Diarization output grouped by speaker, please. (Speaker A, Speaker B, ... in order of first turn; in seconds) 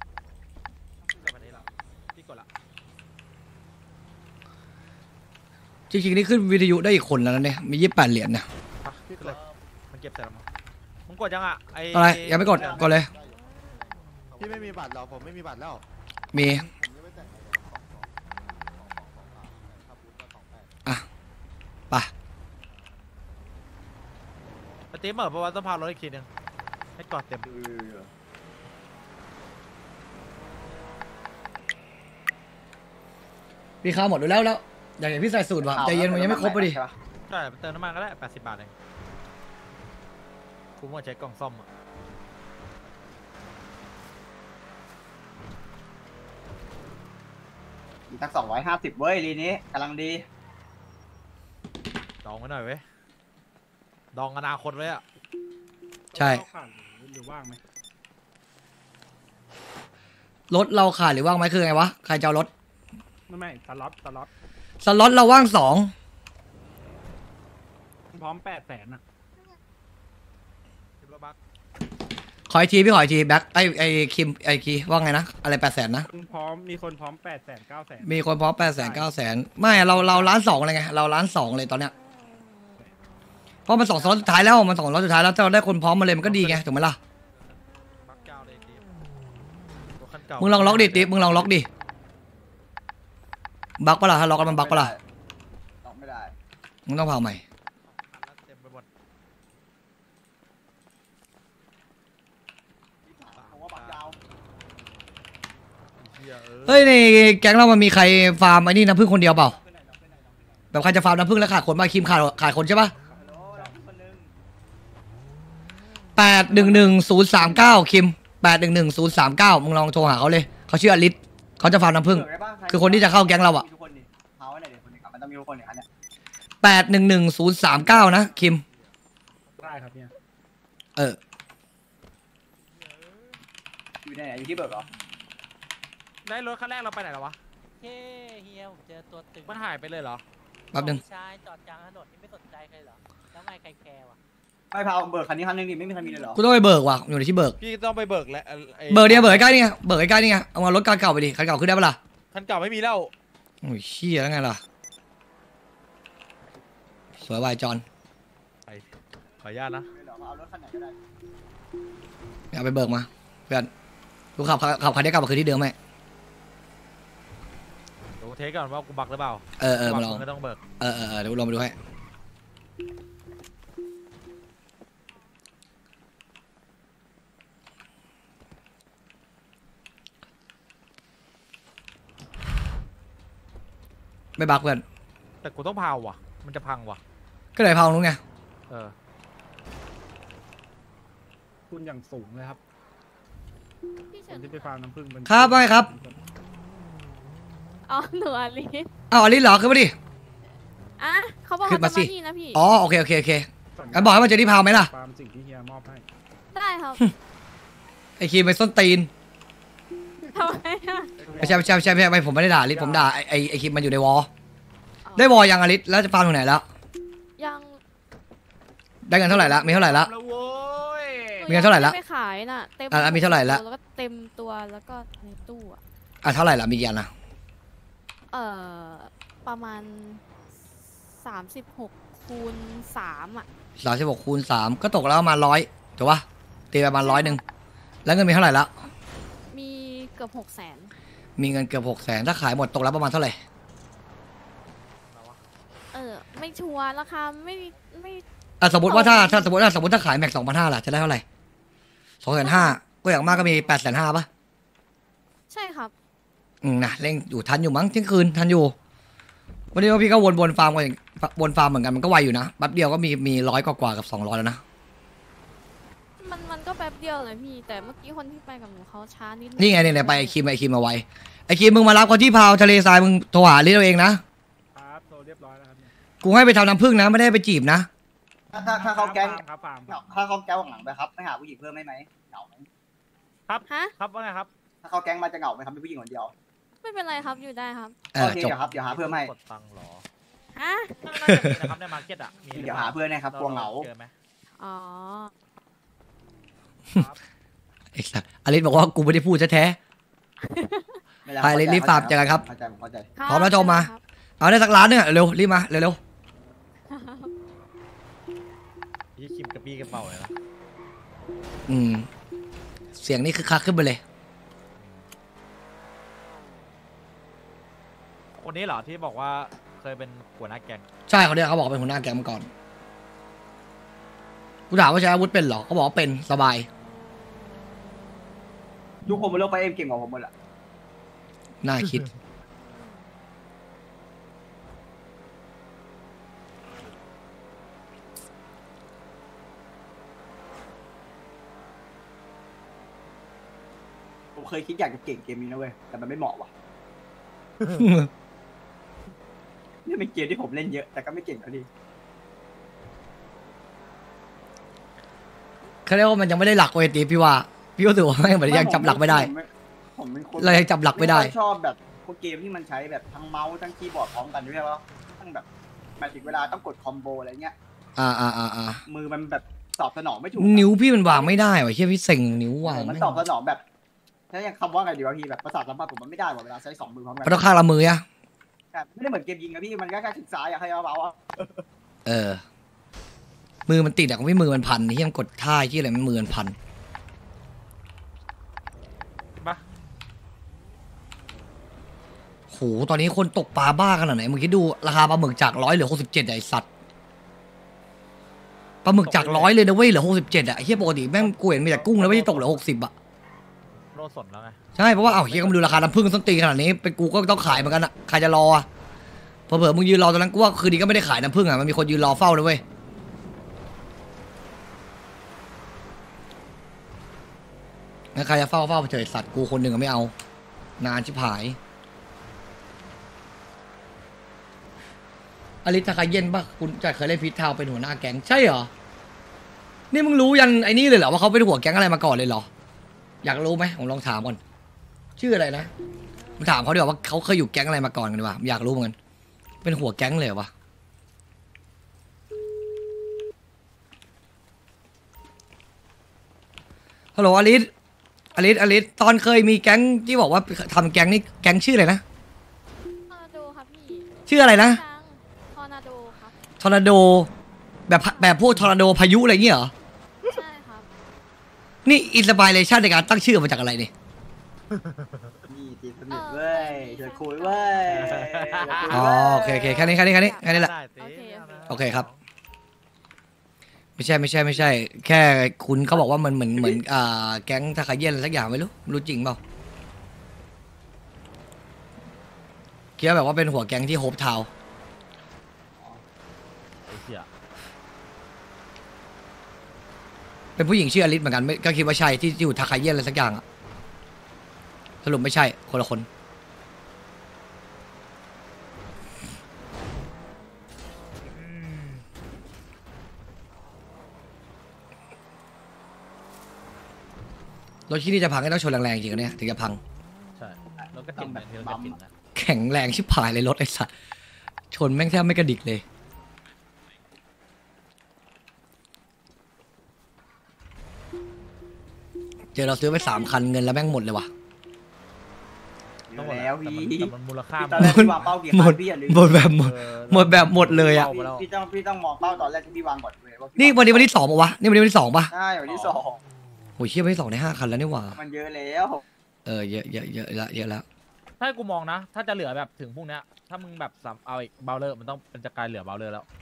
Speaker A: 1.1-2.5, 8.8-10.4, 11.1-12.9, 24.9-26.3, 27.0-27.5, 37.3-38.7, 40.8-41.7, 52.2-52.8, 54.1-55.0, 71.0-71.4, 86.2-86.6, 87.3-88.9, 90.0-91.4, 97.8-98.9, 103.3-104.0, 106.0-106.9, 136.2-137.4, 139.4-140.2, 147.6-149.5, 152.3-153.1, 159.4-159.9, 168.2-170.6, 185.4-187.0, 188.7-188.9, 219.2-221.5, 245.0-245.4, 283.5-284.5, 288.6-290.1, 291.0-294.1, 296.9-297.2, 309.1-310.3, 314.8-315.1, 318.3-320.9, 399.0-399.5, 401.2-402.6, 403.9-405.9, 464.7-465.1, 467.9-469.1, 470.4-472.2, 486.9-487.3, 501.2-502.0, 510.4-512.1, 526.1-528.1, 529.4-531.5, 535.6-536.0, 541.4-546.2
Speaker B: 5.9-8.5, 11.9-13.1, 16.3-16.7, 33.8-36.8, 56.1-56.4, 60.5-62.5, 64.8-65.9, 72.5-76.1, 78.0-81.9, 83.7-87.0, 90.4-91.7, 93.8-94.9, 96.9-97.4, 106.6-109.5, 110.7-112.9, 116.1-123.6, 126.6-128.6, 140.7-141.0, 146.3-147.6, 148.9-152.0, 153.6-154.6, 157.2-157.8, 162.5-163.7, 164.3-165.7, 169.6-170.2, 170.8-171.7, 184.4-184.8, 187.5-188.2, 195.3-195.9, 199.1-199.9, 201.6-204.9, 208.2-209.1, 211.4-214.3, 215.2-216.6, 219.0-220.1, 221.5-222.0, 222.9-223.6, 226.2-227.1, 233.8-237.4, 238.0-238.7, 241.4-243.4, 248.6-251.2, 252.2-254.3, 256.6-258.7, 259.7-264.6, 269.6-274.2, 276.2-277.9, 288.1-288.5, 291.3-291.6, 297.9-299.8, 301.4-302.4, 303.3-306.0, 311.7-312.1, 312.9-314.0, 321.1-322.5, 324.7-326.7, 331.6-332.1, 347.7-348.1, 355.9-359.3, 360.4-361.3, 367.9-368.8, 370.4-373.2, 377.2-378.0, 382.0-382.4, 383.7-386.6, 392.5-396.6, 398.8-402.9, 404.8-408.6, 409.5-412.6, 418.1-420.1, 420.8-421.6, 425.6-428.7, 429.9-432.5, 433.2-434.4, 435.2-435.7, 436.4-438.9, 439.6-440.5, 447.1-447.7, 448.3-452.0, 454.3-454.8, 456.6-457.3, 457.9-459.7, 461.8-463.9, 468.9-470.7, 471.7-472.1, 474.0-479.4, 483.0-484.5, 490.6-493.4, 495.0-496.1, 507.9-509.8, 512.3-513.9, 514.7-515.8, 522.5-524.3, 527.8-531.1, 533.6-535.3, 536.8-538.2, 539.4-540.8
Speaker C: 9.1-9.4, 14.3-15.8, 16.8-17.6, 18.9-20.6
Speaker D: 12.5-13.0, 27.5-28.1, 35.6-36.9, 48.1-50.2, 94.3-95.0, 95.8-96.3, 103.0-104.2, 109.2-110.7, 113.1-114.3, 116.4-117.8, 122.0-125.8, 134.0-134.9, 144.7-146.4, 159.9-161.0, 278.5-282.7, 284.8-286.3, 288.1-289.3, 292.5-293.9, 301.2-303.1, 329.0-330.3, 344.4-346.5, 349.8-351.7, 358.4-365.4, 366.0-367.5, 368.9-371.4, 372.6-373.6, 374.3-377.5, 378.7-381.6, 465.5-469.9, 476.5-476.8, 485.8-486.0, 510.8-512.0, 526.1-529.4, 530.7-534.1, 535.3-536.2, 538.1-539.0
Speaker E: 56.1-57.6, 63.3-64.3, 68.1-69.0, 76.1-79.1, 79.6-80.4, 113.1-113.7, 129.6-130.1, 191.7-192.6, 194.3-196.2, 203.7-206.1, 211.3-212.0, 212.7-213.1, 274.7-275.9, 278.7-280.2
Speaker F: 137.8-139.5, 140.8-144.2
Speaker G: 194.1-194.7, 197.9-198.9, 201.0-202.6, 206.5-207.1, 210.2-211.3, 215.0-215.4, 217.4-217.8, 221.4-225.8, 228.3-230.2, 231.1-233.5, 237.0-237.4, 239.5-240.9, 245.9-248.2, 248.8-249.5, 252.4-252.8, 255.5-255.9, 266.2-270.4, 283.7-283.9, 286.8-288.0, 290.6-291.1, 294.5-295.3, 300.4-301.0, 303.2-304.0, 306.9-307.3, 453.1-456.4, 457.9-458.4, 460.2-460.9, 466.1-468.1, 469.4-470.4, 471.0-471.9, 523.0-523.4